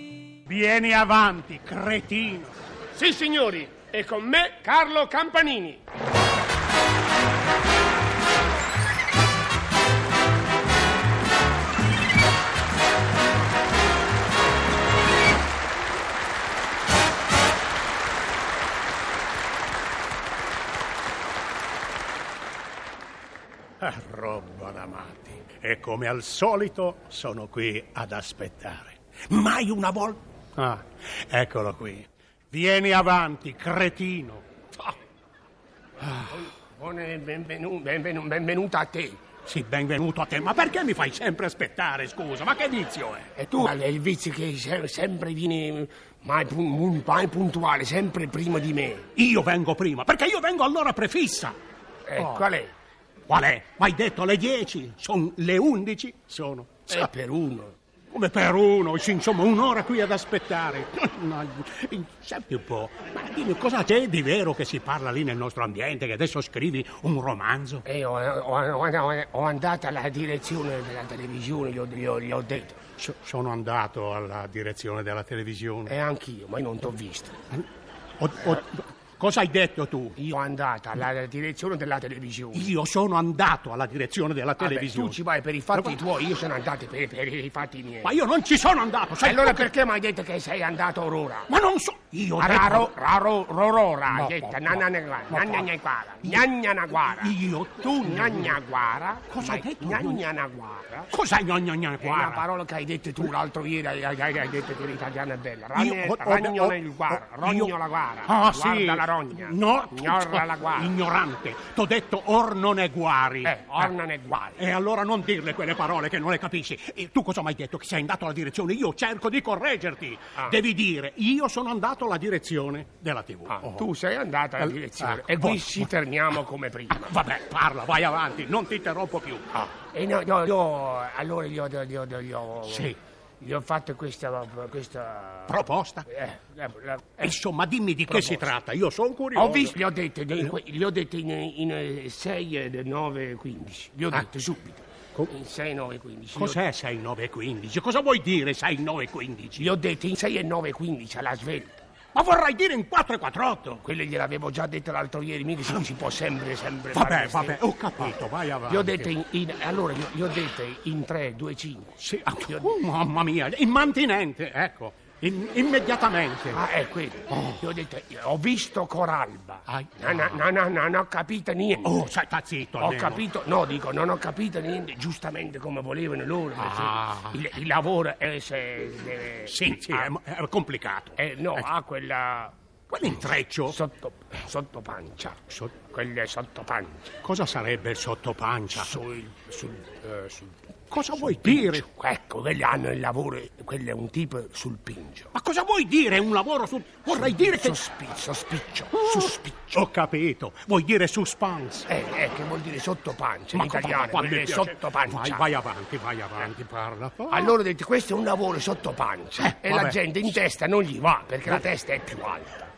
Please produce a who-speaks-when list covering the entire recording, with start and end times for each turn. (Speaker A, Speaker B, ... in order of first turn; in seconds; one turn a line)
Speaker A: 0.5-2.6
Speaker B: 2.9-5.8
Speaker A: 23.8-34.4
Speaker A: 36.0-36.3
Speaker B: 36.1-39.2
Speaker A: 39.5-43.6
Speaker B: 43.3-49.1
Speaker A: 49.1-51.5
Speaker B: 52.0-52.7
Speaker A: 53.3-57.1
Speaker B: 56.9-57.8
Speaker A: 58.1-67.8
Speaker B: 67.8-72.8
Speaker A: 73.0-75.9
Speaker B: 75.8-77.4
Speaker A: 78.2-80.2
Speaker B: 80.2-82.7
Speaker A: 82.5-85.2
Speaker B: 84.6-88.1
Speaker A: 85.7-86.0
Speaker A: 88.0-89.7
Speaker B: 89.2-91.5
Speaker A: 91.5-92.9
Speaker B: 92.4-101.1
Speaker A: 94.1-95.7
Speaker A: 96.9-98.5
Speaker A: 99.3-100.2
Speaker A: 101.1-102.4
Speaker B: 102.0-111.0
Speaker A: 105.8-107.7
Speaker A: 108.2-113.9
Speaker B: 113.4-114.6
Speaker A: 114.6-123.8
Speaker B: 123.5-127.2
Speaker A: 124.6-125.9
Speaker A: 126.9-129.5
Speaker B: 129.5-137.3
Speaker A: 132.7-133.0
Speaker A: 135.5-136.1
Speaker A: 137.2-139.8
Speaker B: 138.1-138.5
Speaker B: 139.3-146.6
Speaker A: 146.3-149.7
Speaker B: 149.6-151.8
Speaker A: 152.1-153.8
Speaker B: 153.8-158.1
Speaker A: 156.9-159.1
Speaker B: 158.7-162.7
Speaker A: 162.0-166.6
Speaker B: 166.5-172.0
Speaker A: 167.3-167.6
Speaker A: 169.7-170.4
Speaker A: 171.8-173.2
Speaker B: 172.8-180.1
Speaker A: 176.6-177.4
Speaker A: 179.5-181.6
Speaker B: 181.2-182.5
Speaker A: 182.9-183.8
Speaker B: 183.1-187.1
Speaker A: 187.2-188.9
Speaker B: 188.7-190.6
Speaker A: 190.9-191.8
Speaker B: 191.1-195.3
Speaker A: 195.3-197.8
Speaker B: 197.1-199.8
Speaker A: 198.9-201.9
Speaker B: 201.9-205.4
Speaker A: 203.5-207.6
Speaker B: 207.3-212.7
Speaker A: 209.4-210.2